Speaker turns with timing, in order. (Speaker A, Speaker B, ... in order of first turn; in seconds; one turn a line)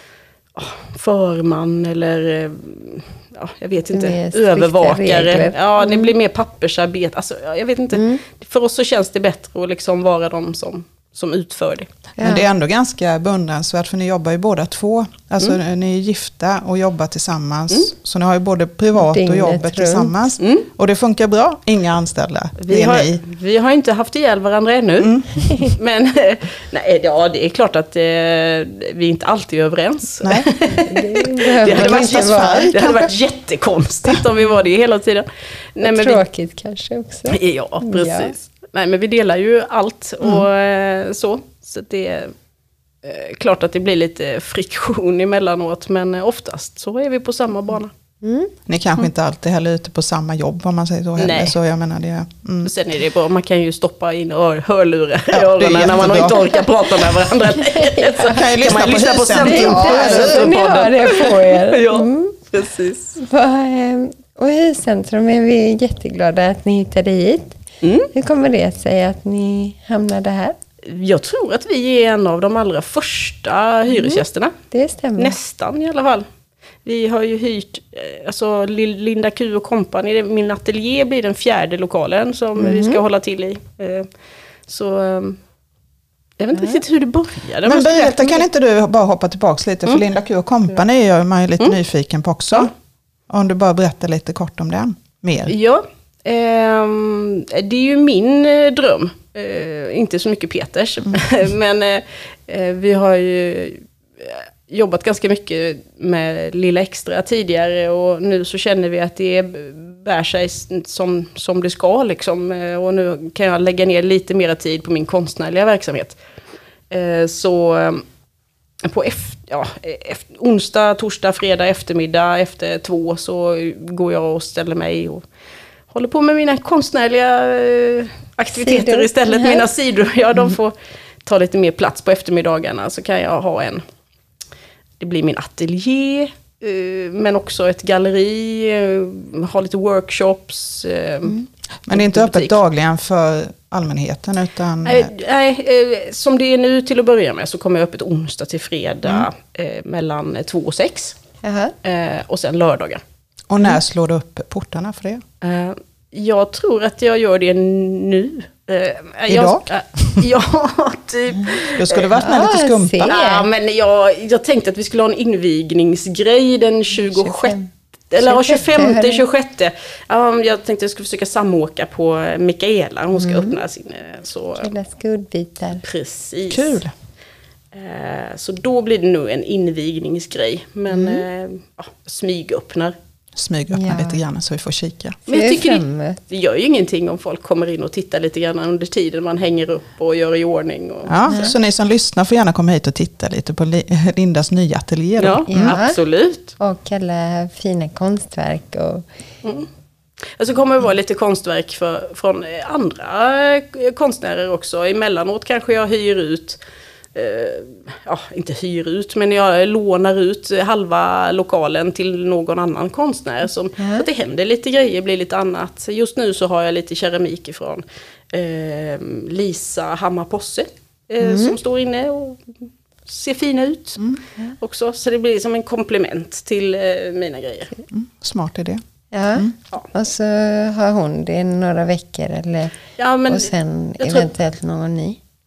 Speaker A: 0.6-11.9
Speaker B: 3.9-6.1
Speaker B: 7.9-8.2
Speaker B: 12.2-12.4
Speaker C: 12.2-23.2
Speaker B: 19.0-20.3
Speaker A: 20.4-20.7
Speaker A: 22.6-36.2
Speaker C: 25.0-25.4
Speaker C: 30.2-30.5
Speaker B: 30.8-33.1
Speaker C: 31.7-33.0
Speaker B: 35.8-38.3
Speaker A: 37.3-42.3
Speaker A: 43.0-47.9
Speaker B: 48.2-48.5
Speaker C: 48.7-52.7
Speaker A: 51.2-51.6
Speaker A: 52.6-63.2
Speaker C: 55.3-56.4
Speaker B: 56.3-58.8
Speaker C: 58.3-60.5
Speaker B: 59.3-62.5
Speaker B: 63.2-67.6
Speaker A: 67.8-68.1
Speaker B: 68.1-70.6
Speaker A: 70.8-74.5
Speaker B: 73.9-75.4
Speaker A: 75.2-76.2
Speaker A: 76.8-84.1
Speaker B: 82.6-83.0
Speaker A: 84.7-85.4
Speaker A: 86.4-88.5
Speaker C: 87.6-92.7
Speaker C: 93.3-95.5
Speaker A: 95.5-116.2
Speaker A: 116.9-118.0
Speaker A: 118.8-125.2
Speaker A: 125.9-133.8
Speaker B: 128.5-129.7
Speaker A: 135.0-141.4
Speaker C: 141.9-145.1
Speaker A: 141.9-142.6
Speaker A: 144.8-151.2
Speaker B: 151.4-151.7
Speaker A: 151.8-153.0
Speaker C: 153.5-155.2
Speaker A: 155.4-162.1
Speaker C: 159.3-159.7
Speaker C: 161.8-163.2
Speaker B: 162.2-163.5
Speaker A: 163.1-167.6
Speaker B: 167.0-169.2
Speaker A: 168.1-174.7
Speaker B: 173.2-173.6
Speaker B: 174.6-175.8
Speaker A: 175.8-176.8
Speaker C: 176.5-176.9
Speaker A: 177.7-182.9
Speaker B: 180.9-181.2
Speaker C: 183.3-185.2
Speaker B: 183.7-184.2
Speaker A: 185.3-191.2
Speaker B: 185.3-186.2
Speaker C: 191.1-195.8
Speaker B: 191.3-191.6
Speaker A: 195.2-196.6
Speaker B: 195.5-196.0
Speaker B: 196.6-199.1
Speaker A: 200.4-206.6
Speaker A: 207.2-222.5
Speaker B: 213.8-214.1
Speaker B: 221.2-221.6
Speaker A: 223.1-224.1
Speaker A: 224.6-227.7
Speaker C: 227.9-228.8
Speaker B: 229.1-232.8
Speaker A: 233.0-234.3
Speaker B: 233.3-235.2